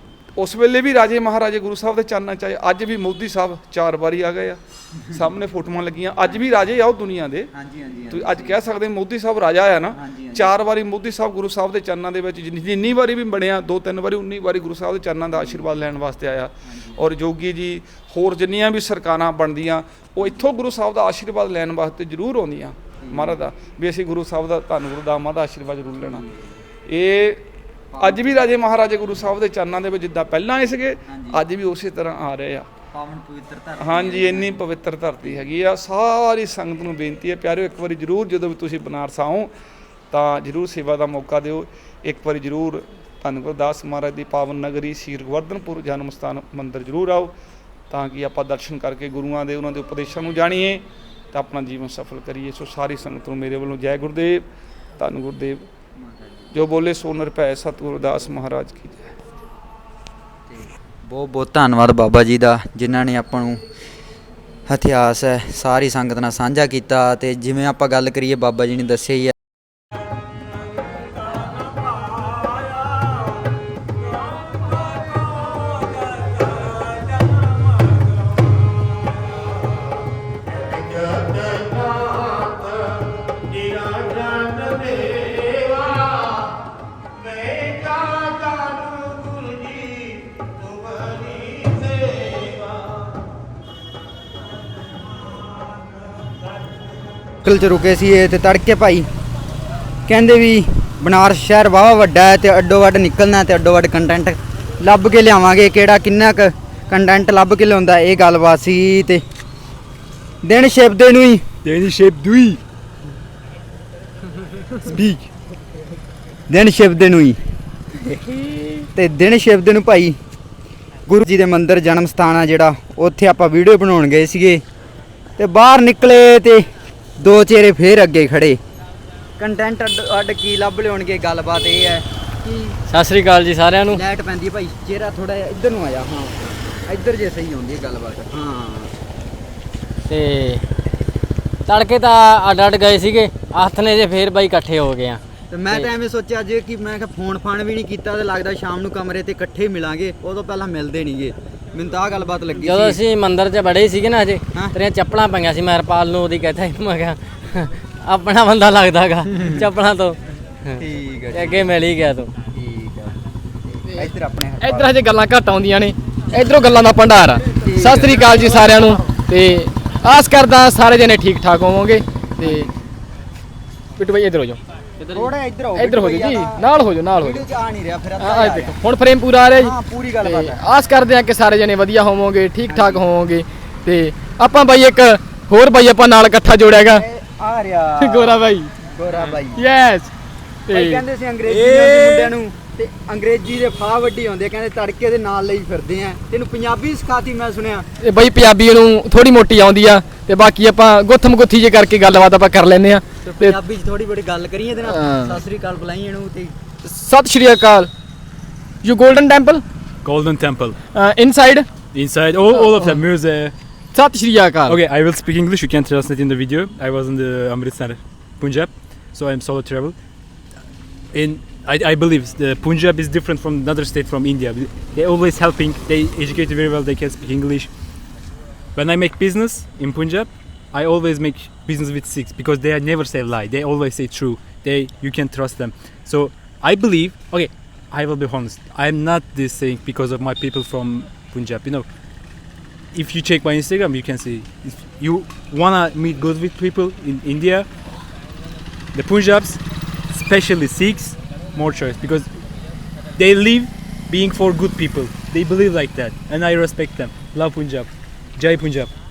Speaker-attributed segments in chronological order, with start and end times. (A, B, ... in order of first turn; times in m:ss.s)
0:00.4-0:07.5 A
0:07.5-0:08.6 B
0:08.1-0:26.2 A
0:09.9-0:10.5 B
0:15.3-0:15.7 B
0:16.6-0:17.1 B
0:23.0-0:23.4 B
0:26.0-0:26.7 B
0:26.9-0:27.5 A
0:27.9-0:28.4 B
0:28.0-0:32.7 A
0:31.1-0:31.4 B
0:32.9-0:34.6 B
0:33.8-0:39.5 A
0:35.2-0:35.5 B
0:40.1-0:47.3 A
0:47.9-0:55.7 A
0:56.0-0:56.5 B
0:56.5-0:59.2 A
1:00.5-1:03.6 B
1:04.7-1:09.4 B
1:37.4-1:39.1 B
1:40.1-1:49.2 B
1:50.4-1:51.4 B
1:51.6-1:52.6 C
1:54.8-1:55.3 C
1:56.5-1:57.4 B
1:59.0-2:00.2 B
2:01.1-2:04.6 B
2:05.4-2:06.7 B
2:07.2-2:08.6 B
2:09.4-2:12.8 B
2:12.9-2:14.0 D
2:13.9-2:19.0 B
2:20.1-2:20.7 D
2:21.7-2:25.9 D
2:25.5-2:33.0 B
2:32.6-2:40.2 D
2:40.7-2:42.3 D
2:40.8-2:41.7 B
2:42.5-2:44.9 B
2:44.6-2:52.7 E
2:47.5-2:49.2 B
2:52.4-2:52.8 B
2:54.0-2:54.6 E
2:55.0-2:55.3 D
2:55.1-2:56.6 B
2:55.8-2:57.4 E
2:57.2-2:58.8 B
2:58.2-3:07.0 E
2:59.5-3:00.7 B
3:02.7-3:03.0 B
3:06.8-3:09.6 B
3:08.0-3:08.7 E
3:09.4-3:10.1 E
3:10.7-3:11.0 E
3:10.7-3:17.9 B
3:11.5-3:12.3 C
3:18.0-3:23.6 E
3:23.2-3:26.6 B
3:24.8-3:25.4 E
3:26.8-3:27.9 E
3:28.8-3:29.6 E
3:30.0-3:30.8 C
3:30.9-3:31.7 E
3:31.9-3:33.5 C
3:32.5-3:32.9 E
3:33.9-3:34.8 E
3:34.7-3:40.0 C
3:41.1-3:47.7 C
3:48.8-4:01.9 C
4:02.9-4:07.7 C
4:08.9-4:12.3 C
4:13.1-4:18.9 C